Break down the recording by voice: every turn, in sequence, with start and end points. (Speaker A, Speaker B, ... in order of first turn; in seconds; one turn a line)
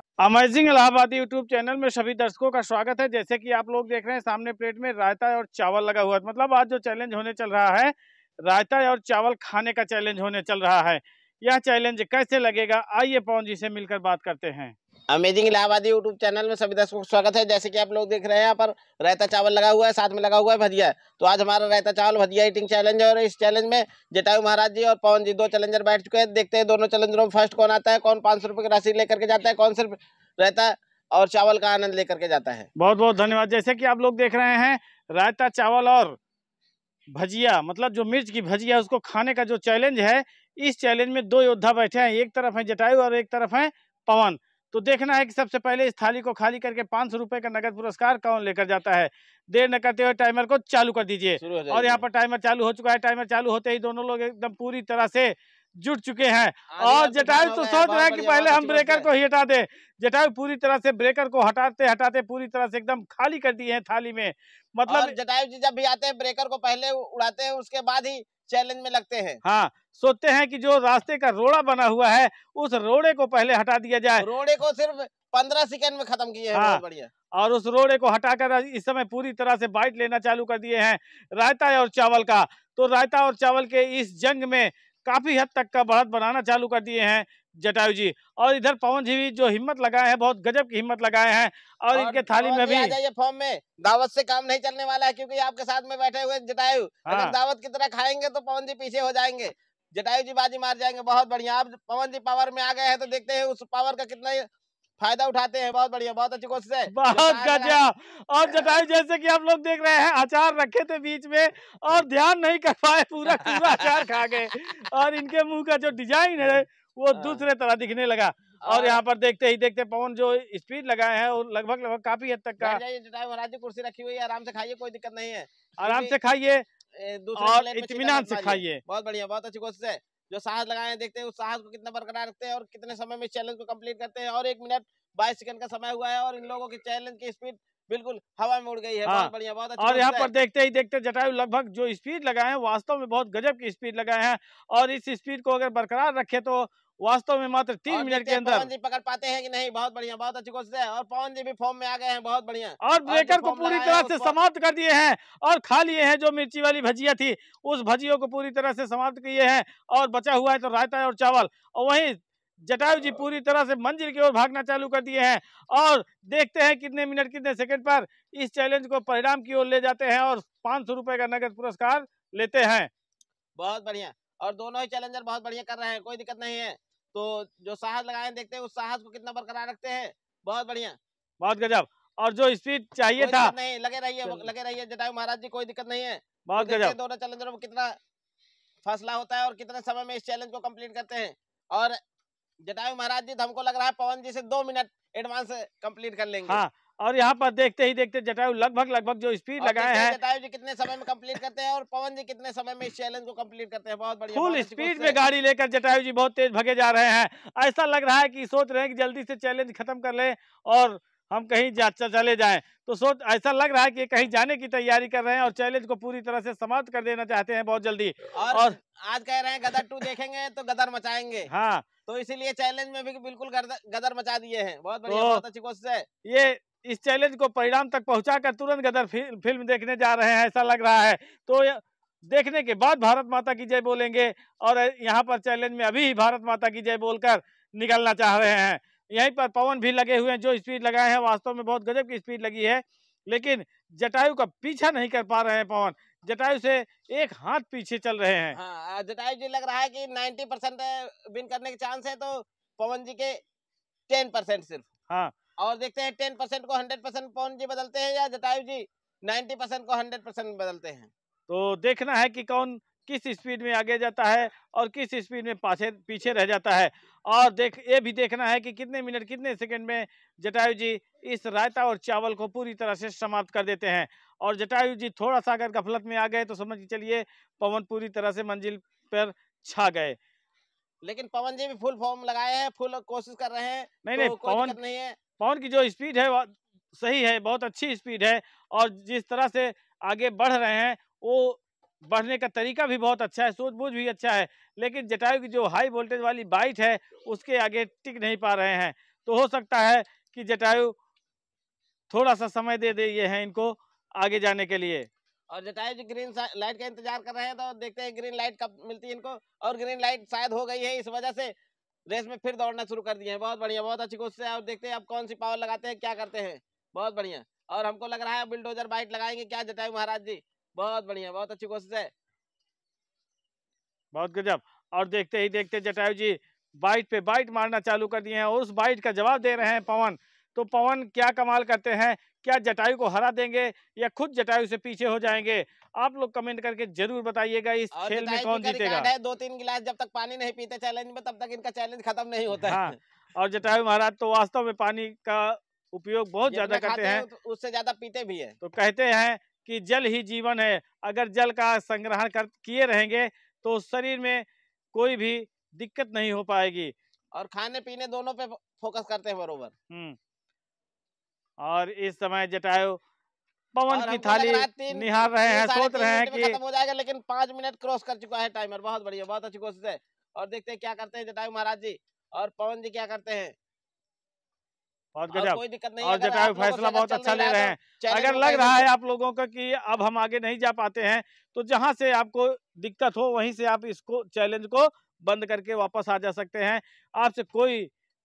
Speaker A: 0.2-7.9
Speaker A: 8.4-14.8
Speaker B: 15.1-32.7
Speaker A: 32.8-36.2
Speaker A: 37.1-65.1
Speaker B: 51.4-52.0
Speaker B: 56.7-59.1
Speaker B: 64.9-69.4
Speaker A: 69.5-74.2
Speaker B: 74.2-77.1
Speaker A: 76.5-76.8
Speaker A: 77.3-93.0
Speaker B: 91.9-104.5
Speaker A: 97.1-97.3
Speaker B: 105.0-107.9
Speaker A: 106.9-122.8
Speaker B: 108.4-108.8
Speaker B: 117.1-117.4
Speaker B: 118.6-119.0
Speaker B: 122.6-126.2
Speaker A: 125.8-126.6
Speaker B: 126.9-140.3
Speaker A: 127.4-128.8
Speaker A: 139.1-148.7
Speaker B: 147.9-154.3
Speaker A: 152.8-172.9
Speaker B: 173.6-181.0
Speaker A: 181.4-183.5
Speaker B: 183.2-188.0
Speaker A: 186.4-186.9
Speaker B: 188.8-192.0
Speaker B: 192.6-196.6
Speaker A: 196.5-200.2
Speaker B: 199.6-205.2
Speaker A: 204.3-218.8
Speaker B: 218.3-221.5
Speaker A: 221.5-221.9
Speaker B: 222.1-226.1
Speaker A: 225.1-225.4
Speaker A: 226.2-248.6
Speaker B: 248.5-253.4
Speaker B: 254.1-254.9
Speaker B: 255.6-261.1
Speaker A: 261.5-280.2
Speaker B: 281.0-285.2
Speaker A: 284.1-284.8
Speaker A: 285.4-300.9
Speaker A: 302.1-305.1
Speaker B: 305.5-311.5
Speaker B: 312.1-322.1
Speaker A: 324.1-339.1
Speaker B: 337.9-343.0
Speaker A: 342.6-347.2
Speaker B: 346.5-348.6
Speaker A: 348.6-356.9
Speaker B: 357.3-359.7
Speaker A: 359.9-360.2
Speaker A: 361.6-363.0
Speaker A: 363.8-366.6
Speaker B: 363.9-373.6
Speaker A: 375.1-387.9
Speaker B: 375.3-378.9